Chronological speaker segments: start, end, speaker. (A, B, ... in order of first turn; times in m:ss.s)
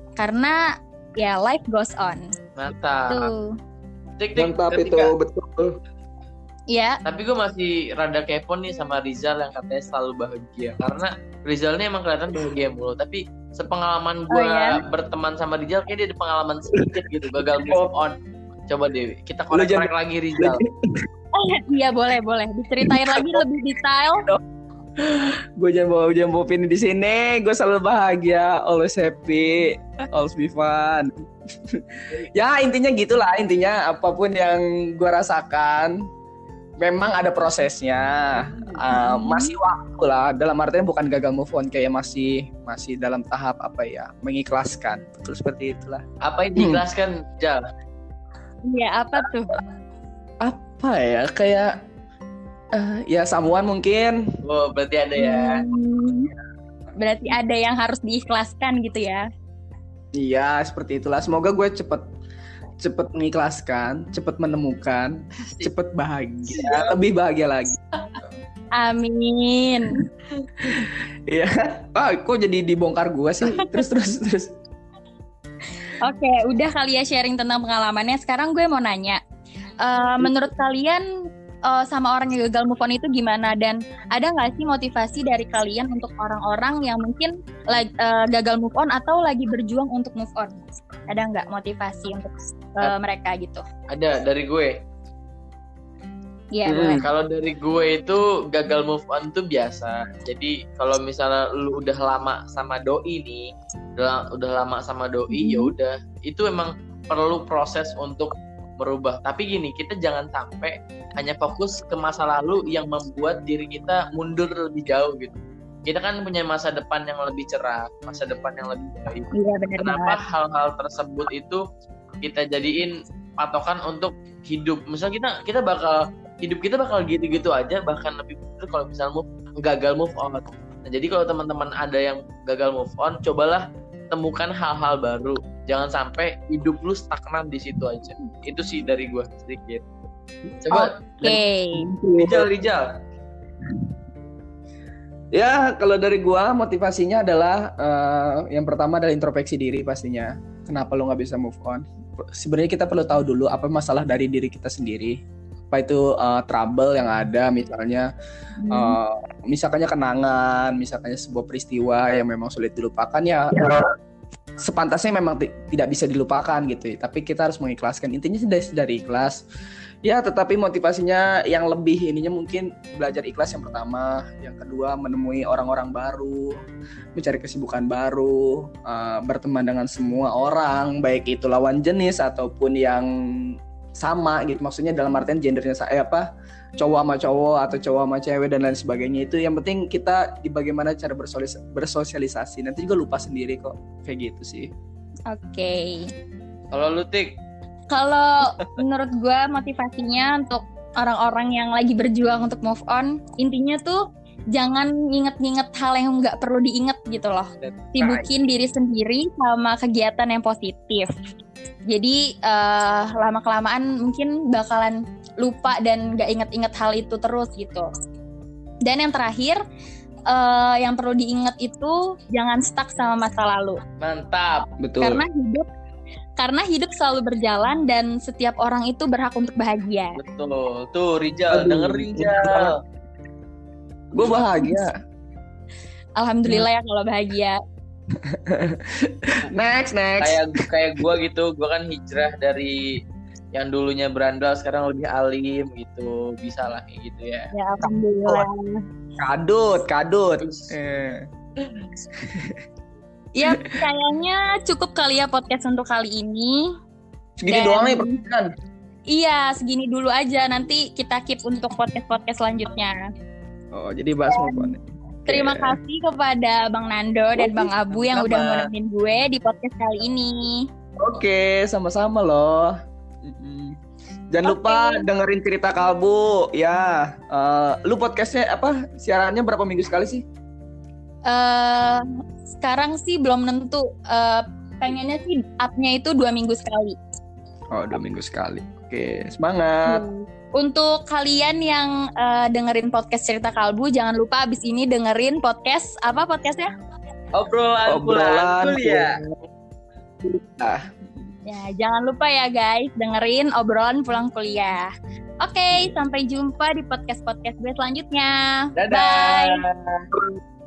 0:00.2-0:00.6 A
0:01.2-0:02.2 A
0:02.6-0:03.3 B
0:03.1-0:03.5 A
0:04.2-0:05.1 B
0:04.4-0:05.8 C
0:06.7-0:07.0 A
0:07.0-0:18.2 B
0:14.3-0:14.8 A
0:17.4-0:17.8 C
0:18.7-0:20.6 B
0:19.5-0:21.0 C
0:21.4-0:24.2 A
0:22.8-0:23.4 C
0:25.0-0:31.1 C
0:32.3-0:36.0 C
0:36.8-0:46.0 C
0:38.9-0:39.5 A
0:46.2-0:47.6 B
0:46.6-0:46.8 C
0:48.6-0:49.6 A
0:50.4-0:51.7 C
0:52.7-0:54.2 C
0:54.4-0:55.6 B
0:55.2-0:56.3 A
0:57.0-0:59.2 A
1:00.1-1:02.0 C
1:02.8-1:07.8 C
1:05.4-1:05.7 B
1:06.5-1:07.0 B
1:08.8-1:10.0 A
1:10.6-1:14.5 C
1:16.0-1:19.2 A
1:19.8-1:21.0 A
1:21.6-1:30.6 A
1:31.1-1:33.6 A
1:33.9-1:34.7 B
1:36.5-1:37.0 A
1:36.6-1:37.0 C
1:37.0-2:01.6 B
1:45.3-1:45.7 A
1:59.3-2:00.2 A
2:02.2-2:19.8 B
2:20.6-2:20.9 B
2:20.7-2:21.8 A
2:21.2-2:22.5 C
2:22.2-2:22.9 B
2:25.3-2:35.1 C
2:35.7-2:38.1 C
2:38.6-2:39.0 A
2:38.7-2:43.8 C
2:44.6-2:49.4 C
2:50.0-2:56.5 C
2:57.1-3:06.2 C
3:06.8-3:14.7 C
3:15.3-3:16.0 A
3:16.7-3:17.4 B
3:17.9-3:24.0 A
3:24.5-3:31.1 A
3:27.6-3:28.3 B
3:31.9-3:37.9 A
3:38.8-3:39.6 A
3:40.3-3:43.8 A
3:44.0-3:44.7 B
3:44.8-3:45.2 C
3:45.0-3:45.6 A
3:46.4-3:50.2 A
3:50.2-3:52.8 B
3:51.5-3:52.7 C
3:54.1-3:54.9 C
3:56.2-3:57.6 A
3:58.3-4:00.5 C
4:00.2-4:02.8 B
4:03.5-4:07.5 B
4:07.5-4:08.8 A
4:09.2-4:11.2 C
4:10.4-4:10.7 B
4:12.2-4:12.6 C
4:13.4-4:16.6 A
4:17.4-4:18.5 C
4:17.5-4:18.2 A
4:19.1-4:22.9 A
4:23.7-4:25.7 C
4:24.3-4:24.7 A
4:25.3-4:30.6 A
4:27.4-4:28.6 C
4:31.0-4:32.7 C
4:33.2-4:33.7 C
4:34.3-4:40.2 C
4:34.4-4:35.0 A
4:41.3-4:42.0 A
4:42.6-4:47.0 A
4:47.7-4:50.0 C
4:49.8-4:56.7 A
4:57.3-4:59.2 B
4:57.9-4:59.3 C
5:00.2-5:00.8 C
5:01.4-5:04.9 A
5:05.4-5:09.6 A
5:08.8-5:10.0 B